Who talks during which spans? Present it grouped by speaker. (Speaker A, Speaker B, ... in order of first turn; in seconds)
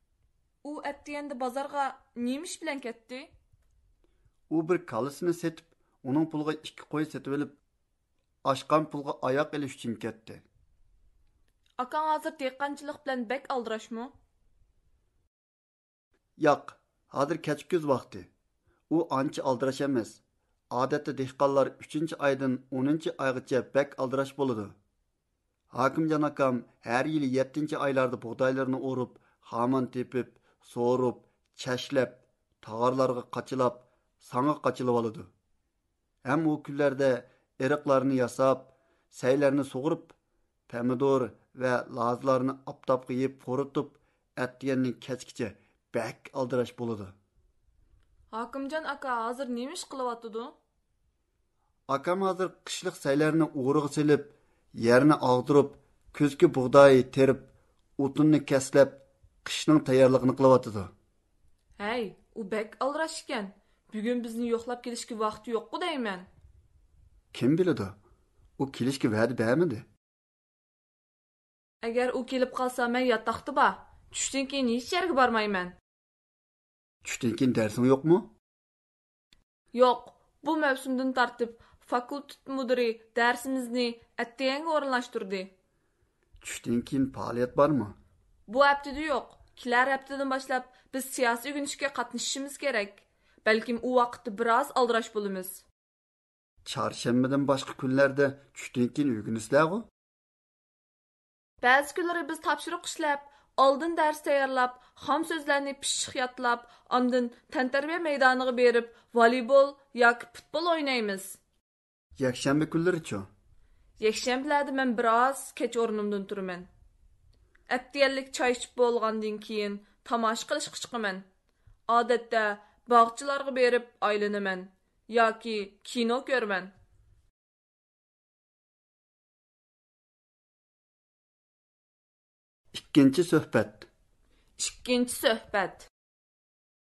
Speaker A: 0.6-3.3, 11.8-14.1, 48.3-50.5, 61.8-66.3, 71.8-75.8, 79.7-85.5, 88.5-95.7, 101.6-111.4, 114.0-116.7, 117.7-121.3, 121.9-126.7, 134.6-135.9
Speaker B: 4.5-7.6, 8.4-10.4, 16.4-18.3, 18.9-20.2, 20.7-24.8, 25.7-35.3, 36.2-40.1, 40.7-47.1, 51.9-60.9, 67.3-68.0, 68.6-69.9, 77.0-78.3, 86.4-88.0, 96.7-99.9, 112.2-113.3, 132.7-133.9